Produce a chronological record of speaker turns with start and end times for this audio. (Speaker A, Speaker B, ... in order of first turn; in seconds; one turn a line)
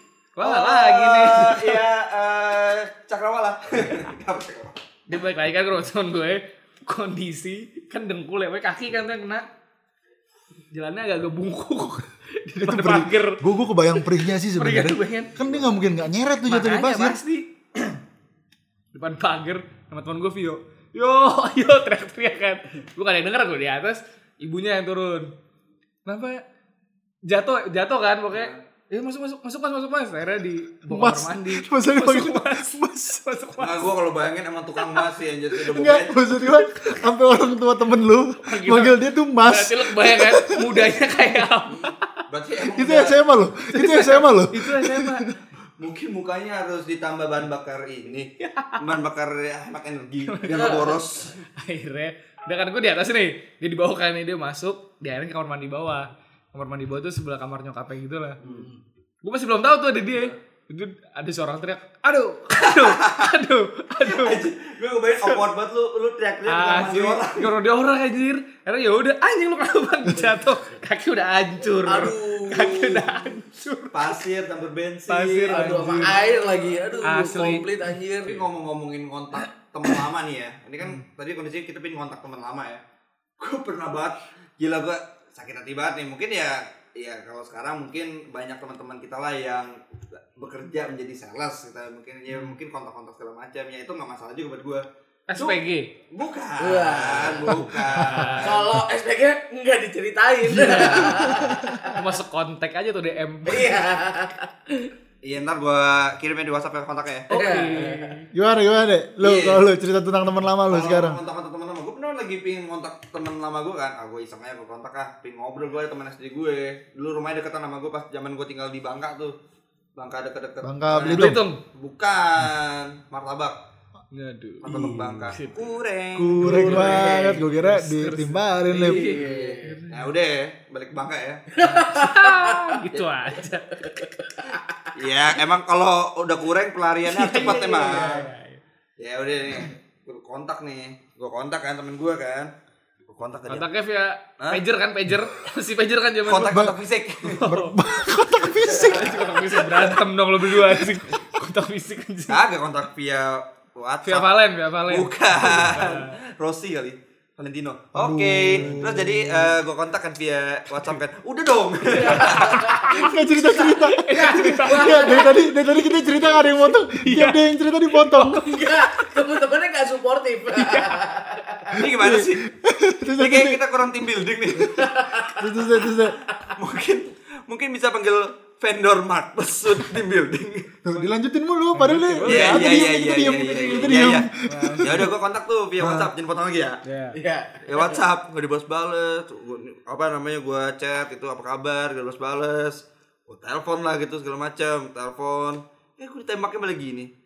Speaker A: 0.3-1.8
Speaker B: 0.4-4.8
Speaker A: 5.1-9.4
Speaker A: 10.7-13.4
Speaker C: 12.6-17.2
Speaker A: 14.0-15.3
Speaker B: 15.4-15.8
Speaker A: 16.4-18.0
Speaker A: 18.9-25.3
Speaker A: 26.1-26.4
Speaker A: 27.2-33.9
Speaker B: 28.3-28.6
Speaker C: 30.9-33.2
Speaker B: 33.6-36.2
Speaker C: 35.6-40.9
Speaker A: 36.5-37.0
Speaker A: 38.4-42.0
Speaker B: 42.3-43.1
Speaker C: 42.7-45.2
Speaker A: 43.7-45.3
Speaker B: 45.8-51.3
Speaker A: 48.4-49.0
Speaker A: 50.3-58.4
Speaker B: 58.4-58.7
Speaker D: 58.4-58.8
Speaker A: 59.2-64.5
Speaker B: 62.5-63.3
Speaker B: 64.0-67.5
Speaker A: 65.1-65.4
Speaker A: 66.5-74.2
Speaker D: 71.8-73.0
Speaker B: 73.9-76.2
Speaker A: 75.1-76.2
Speaker D: 75.5-78.4
Speaker A: 77.0-77.7
Speaker B: 78.2-82.8
Speaker B: 83.4-94.8
Speaker A: 92.3-92.5
Speaker A: 95.3-95.9
Speaker B: 96.1-98.7
Speaker D: 96.6-97.7
Speaker A: 97.8-98.6
Speaker D: 98.4-102.0
Speaker A: 100.5-103.8
Speaker D: 103.5-104.9
Speaker B: 105.2-107.3
Speaker D: 107.3-108.2
Speaker A: 107.3-108.3
Speaker C: 108.3-111.2
Speaker B: 109.2-109.6
Speaker B: 110.7-119.3
Speaker B: 120.0-123.6
Speaker C: 120.6-121.4
Speaker A: 121.1-121.6
Speaker A: 124.1-125.7
Speaker B: 124.6-127.0
Speaker D: 124.7-125.0
Speaker C: 126.2-129.2
Speaker A: 126.4-130.1
Speaker D: 126.7-127.4
Speaker D: 128.7-129.8
Speaker B: 129.9-131.4
Speaker D: 131.5-132.7
Speaker A: 131.6-134.0
Speaker D: 133.8-134.9
Speaker B: 134.9-138.2
Speaker A: 137.0-138.6
Speaker D: 137.7-138.2
Speaker B: 139.0-142.5
Speaker B: 143.1-143.7
Speaker A: 143.5-146.7
Speaker B: 146.2-147.4
Speaker C: 146.4-146.7
Speaker A: 147.2-147.8
Speaker C: 147.4-149.2
Speaker B: 148.7-149.9
Speaker A: 148.7-152.4
Speaker B: 152.3-154.3
Speaker A: 154.0-156.2
Speaker B: 154.9-162.7
Speaker C: 157.9-159.6
Speaker A: 158.6-158.9
Speaker D: 161.9-165.4
Speaker A: 162.0-169.2
Speaker C: 162.9-168.4
Speaker D: 168.2-171.8
Speaker A: 170.5-171.0
Speaker B: 171.7-172.4
Speaker C: 171.8-173.6
Speaker B: 173.2-175.1
Speaker D: 174.7-176.5
Speaker C: 175.4-176.2
Speaker B: 176.6-180.7
Speaker C: 180.8-185.1
Speaker A: 181.7-185.1
Speaker B: 182.2-184.3
Speaker B: 184.8-186.8
Speaker C: 185.8-186.1
Speaker A: 186.8-187.2
Speaker D: 187.1-188.0
Speaker B: 187.7-197.1